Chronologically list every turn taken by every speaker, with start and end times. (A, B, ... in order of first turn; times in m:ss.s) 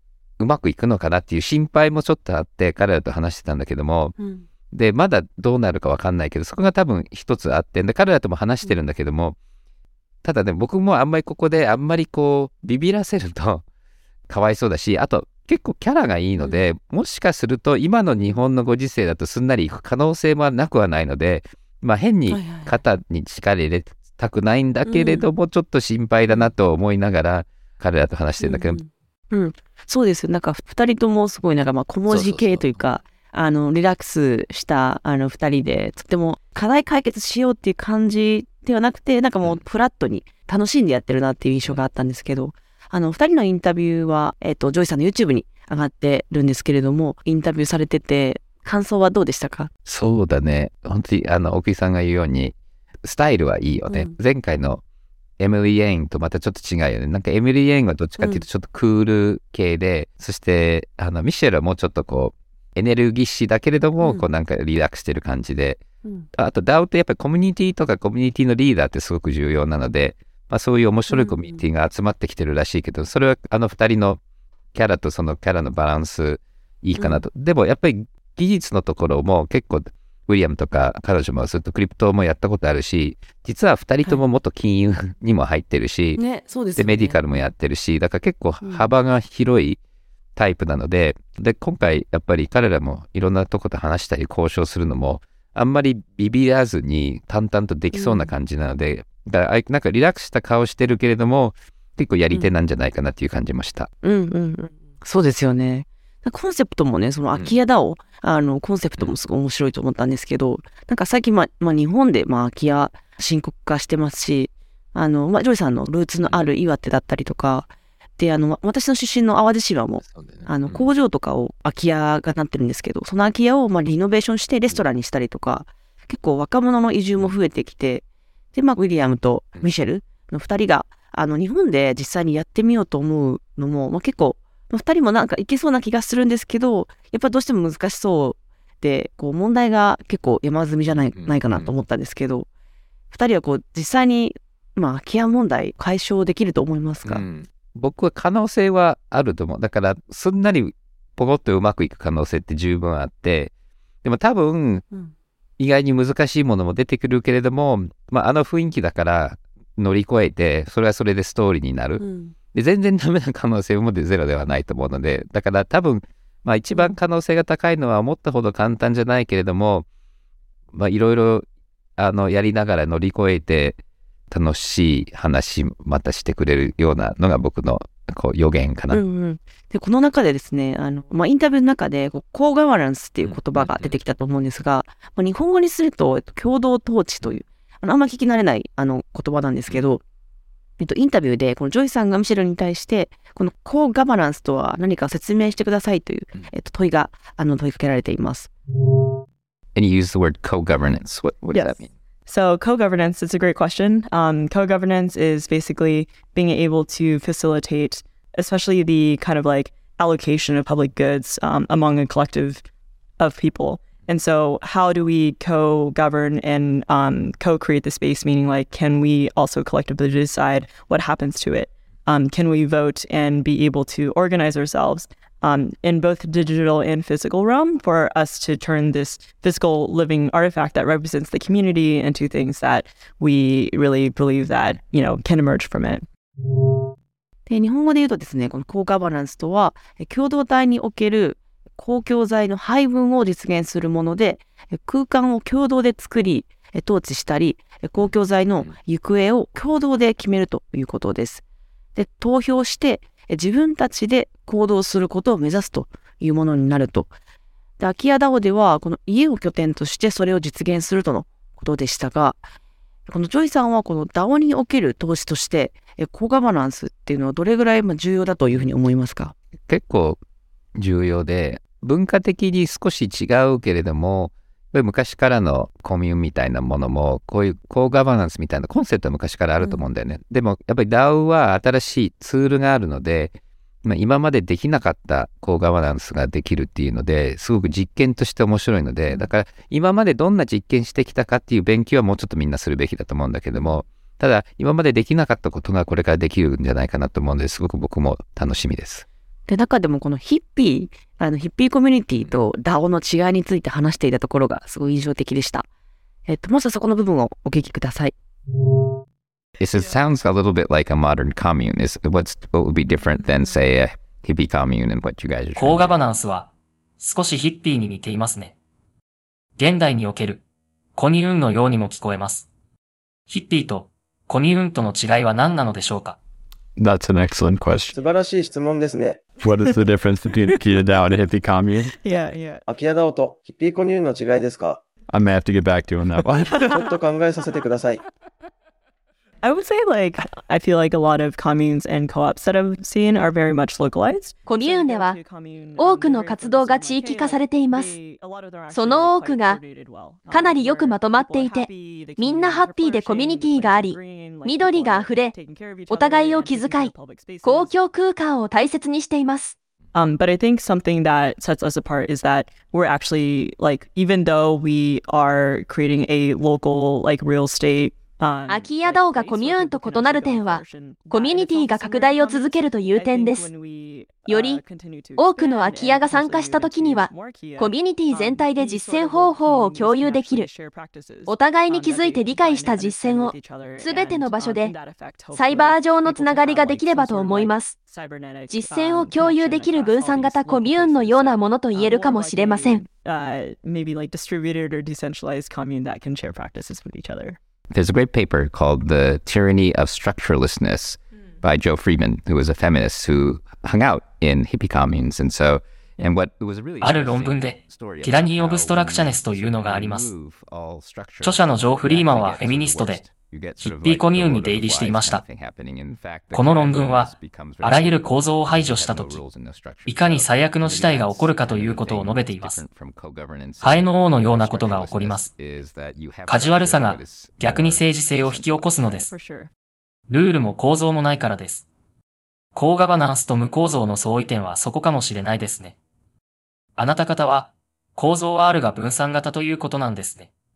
0:00.4-0:04.2 A
0:04.2-0:04.4 B
0:04.7-0:09.4 A
0:10.2-0:13.6 A
0:14.3-0:28.8 A
0:16.4-0:16.6 B
0:22.3-0:22.8 B
0:24.8-0:25.3 B
0:28.4-0:49.7 B
0:32.1-0:32.7 A
0:49.8-0:54.8 A
0:53.9-0:54.2 B
0:55.4-1:05.8 A
0:58.2-0:58.4 B
1:04.0-1:04.3 B
1:06.3-1:14.2 A
1:11.1-1:11.6 B
1:14.7-1:26.2 A
1:17.0-1:17.2 B
1:26.2-1:27.5 B
1:26.8-1:29.8 A
1:28.6-1:28.9 B
1:30.4-1:43.9 A
1:37.9-1:38.3 B
1:44.0-2:22.5 B
2:00.0-2:00.9 A
2:20.9-2:21.7 A
2:23.1-2:27.2 B
2:27.0-2:33.5 A
2:34.0-2:34.8 A
2:35.6-2:49.8 A
2:42.0-2:42.3 B
2:50.7-2:51.4 A
2:52.0-2:53.8 A
2:54.3-2:59.0 A
2:58.9-3:10.0 B
3:03.2-3:03.9 A
3:10.8-3:18.5 B
3:19.7-3:21.9 A
3:21.5-3:32.6 C
3:33.2-3:56.0 C
3:57.5-4:11.4 B
4:08.0-4:08.7 A
4:12.0-4:17.1 B
4:17.8-4:22.4 B
4:23.1-4:29.3 B
4:29.7-4:30.2 A
4:30.8-4:59.0 A
4:39.6-4:39.9 B
4:53.5-4:53.8 B
4:59.5-5:05.6 B
5:06.3-5:08.1 B
5:09.6-5:16.0 A
5:15.6-5:18.5 D
5:19.6-5:20.4 D
5:21.0-5:22.5 D
5:23.3-5:26.2 D
5:26.8-5:27.9 E
5:27.9-5:29.4 F
5:29.4-5:31.9 E
5:31.8-5:32.6 C
5:32.7-5:34.8 F
5:35.1-5:36.7 E
5:36.3-5:36.8 C
5:36.6-5:38.0 F
5:39.4-5:57.7 C
5:44.5-5:45.2 G
5:45.8-5:48.0 G
5:48.7-5:49.6 G
5:50.3-5:55.3 G
5:55.9-5:59.5 G
5:59.9-6:37.4 C
6:08.5-6:13.5 G
6:14.2-6:14.6 G
6:15.2-6:20.5 G
6:21.3-6:24.8 G
6:25.3-6:27.8 G
6:28.5-6:32.8 G
6:37.7-7:08.9 A
6:46.8-6:50.1 D
6:51.2-6:53.0 D
6:53.6-6:55.2 D
6:56.3-6:59.2 D
6:59.9-7:02.6 D
7:03.6-7:05.3 D
7:06.3-7:09.1 D
7:09.0-7:09.5 C
7:10.1-7:11.6 D
7:12.5-7:15.7 D
7:16.8-7:20.3 D